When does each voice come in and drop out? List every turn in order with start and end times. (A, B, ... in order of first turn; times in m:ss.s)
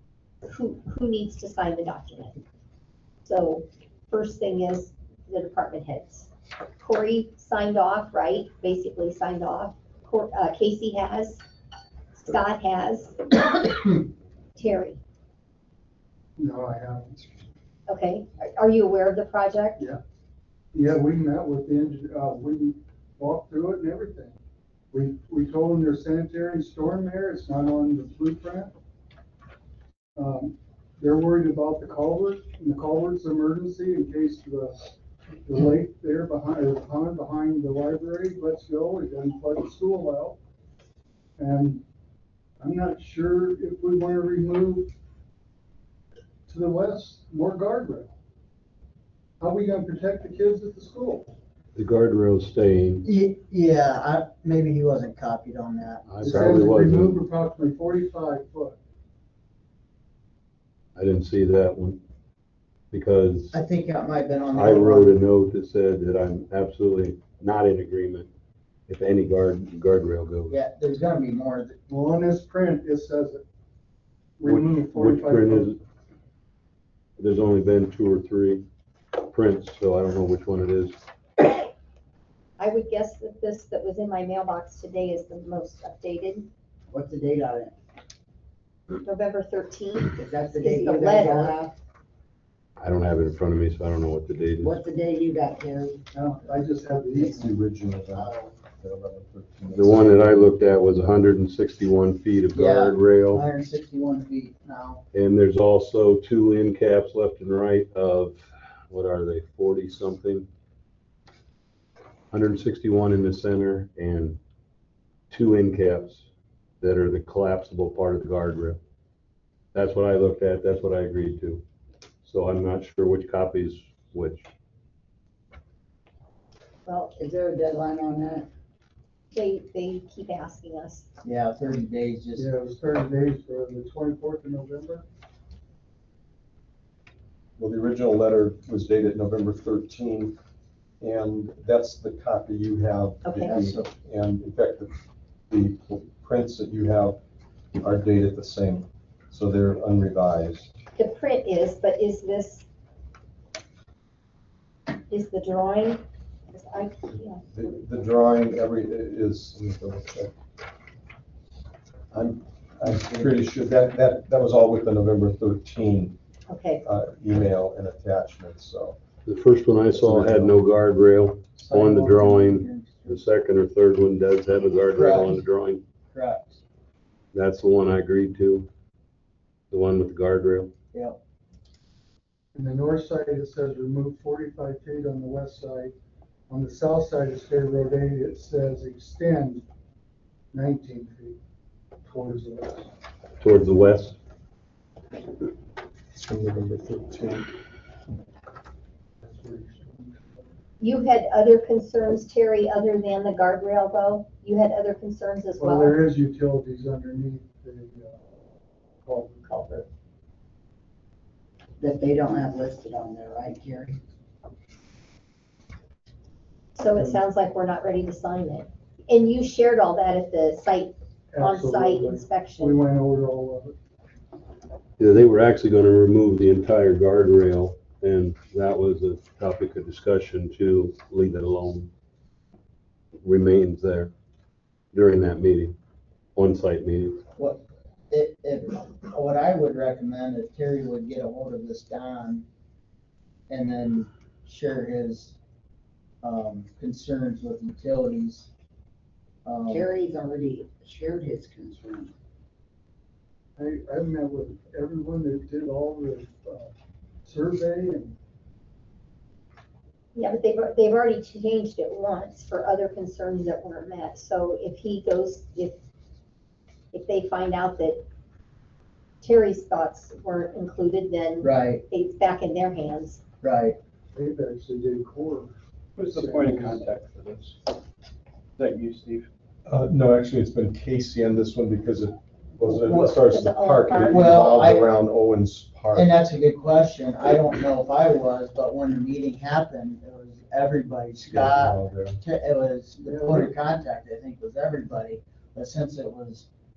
0:00.5-0:02.4 A
0:03.2-0:11.4 A
0:12.1-0:14.0 A
0:14.6-0:15.0 A
0:16.4-0:17.2 B
0:17.9-0:19.8 A
0:20.7-0:24.3 B
0:24.9-0:28.7 B
0:30.2-0:34.8 B
0:35.4-0:40.4 B
0:41.4-0:41.8 B
0:42.6-0:44.9 B
0:46.5-0:48.1 B
0:49.4-0:51.3 B
0:51.7-0:53.0 C
0:53.0-0:56.2 D
0:56.1-0:57.2 C
0:56.2-0:58.8 B
1:01.0-1:02.0 C
1:02.9-1:03.6 C
1:03.5-1:05.2 D
1:04.5-1:08.3 C
1:08.9-1:10.6 C
1:10.5-1:11.8 D
1:11.9-1:13.4 B
1:14.4-1:15.7 B
1:14.4-1:15.8 C
1:17.2-1:18.6 C
1:19.2-1:21.0 C
1:22.6-1:26.5 A
1:26.9-1:27.8 E
1:28.9-1:31.6 A
1:30.2-1:31.7 E
1:32.8-1:34.8 C
1:34.6-1:36.0 E
1:36.1-1:37.4 B
1:37.2-1:37.6 E
1:37.4-1:40.5 F
1:38.1-1:38.5 E
1:39.7-1:43.4 C
1:42.5-1:45.0 D
1:45.1-1:50.5 C
1:52.3-1:54.4 C
1:55.3-1:56.3 C
1:56.8-1:58.8 C
1:59.7-2:01.6 C
2:02.2-2:04.4 C
2:06.8-2:07.1 A
2:07.2-2:08.5 E
2:09.3-2:11.0 A
2:11.2-2:12.5 D
2:12.4-2:15.0 B
2:17.6-2:20.4 F
2:21.0-2:25.0 F
2:23.2-2:23.6 A
2:23.4-2:23.9 D
2:25.5-2:27.2 F
2:27.8-2:30.7 F
2:30.9-2:32.6 A
2:35.1-2:37.4 A
2:37.5-2:40.3 F
2:42.1-2:46.2 F
2:46.5-2:46.8 A
2:46.8-2:49.0 F
2:49.2-2:55.8 C
2:49.9-2:50.6 F
2:51.6-2:53.2 D
2:54.9-2:55.4 D
2:56.1-2:56.6 D
2:57.3-2:58.7 C
2:59.7-3:00.7 C
3:00.9-3:01.2 D
3:02.5-3:05.9 B
3:06.5-3:09.6 B
3:10.5-3:11.4 B
3:12.0-3:12.9 B
3:13.4-3:14.2 C
3:16.1-3:17.5 F
3:19.2-3:20.3 B
3:20.8-3:26.0 A
3:25.6-3:28.2 B
3:29.0-3:29.8 B
3:31.8-3:34.0 E
3:36.8-3:42.8 A
3:41.3-3:43.7 B
3:45.0-3:51.9 C
3:53.2-3:54.1 C
3:54.9-3:55.8 C
3:56.4-3:57.2 C
3:57.4-4:02.4 D
4:03.5-4:05.4 D
4:06.2-4:08.5 D
4:09.4-4:09.9 D
4:09.6-4:12.1 E
4:13.6-4:16.7 B
4:17.2-4:18.1 B
4:20.1-4:25.8 A
4:26.9-4:28.0 A
4:29.2-4:33.2 A
4:31.4-4:31.8 D
4:33.4-4:33.8 D
4:34.1-4:35.5 B
4:36.0-4:37.7 G
4:36.1-4:36.8 B
4:38.6-4:39.3 G
4:39.6-4:46.1 F
4:43.0-4:44.3 A
4:44.1-4:44.9 D
4:45.9-4:56.5 D
4:51.3-4:52.2 F
4:53.0-4:53.5 B